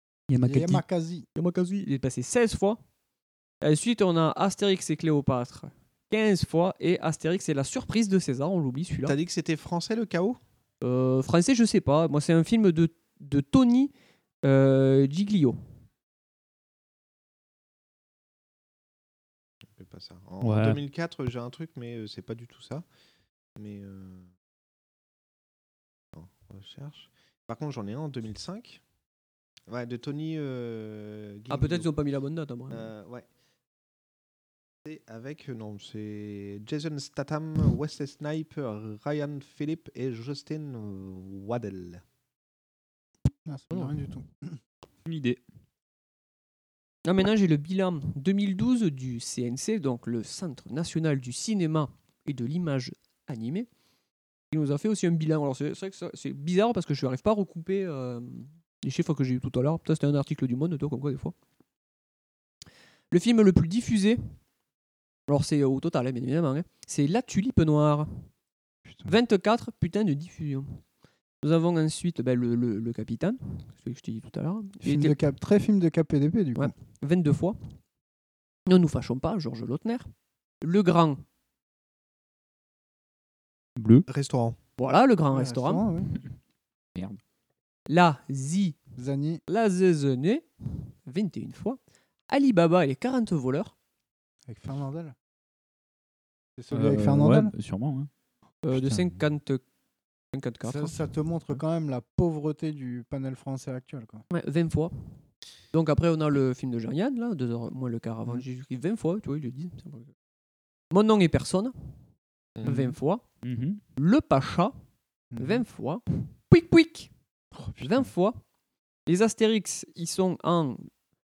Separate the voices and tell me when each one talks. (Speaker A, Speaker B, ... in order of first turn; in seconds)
Speaker A: 0.3-0.8, 20.4-20.8, 45.0-45.4, 83.8-84.0, 96.7-98.1, 113.4-113.8
Speaker B: 0.4-1.3, 43.4-44.6, 68.8-69.1, 74.8-76.7, 85.3-86.1, 89.0-89.4, 94.5-95.1, 96.6-97.5, 98.7-99.2, 100.6-104.2, 115.3-115.6, 117.5-118.0
Speaker C: 1.4-2.8, 3.6-9.2, 10.8-13.9, 14.4-15.6, 31.5-32.9, 47.0-53.7, 54.5-61.3, 63.1-64.2, 65.3-68.3, 69.0-70.8, 71.4-75.2, 76.5-77.6, 78.7-80.1, 80.6-81.2, 84.8-85.9, 87.9-88.8, 89.5-93.7, 98.6-99.6, 100.3-101.0, 104.3-104.9, 105.7-110.1, 110.9-111.7, 112.6-113.2, 114.0-114.7, 115.4-117.1, 117.8-118.4, 119.1-120.9
Speaker D: 9.0-10.4, 19.8-22.8, 23.6-24.3, 26.1-28.8, 29.7-31.9, 32.7-33.2, 34.8-42.0, 84.1-84.6, 112.5-112.9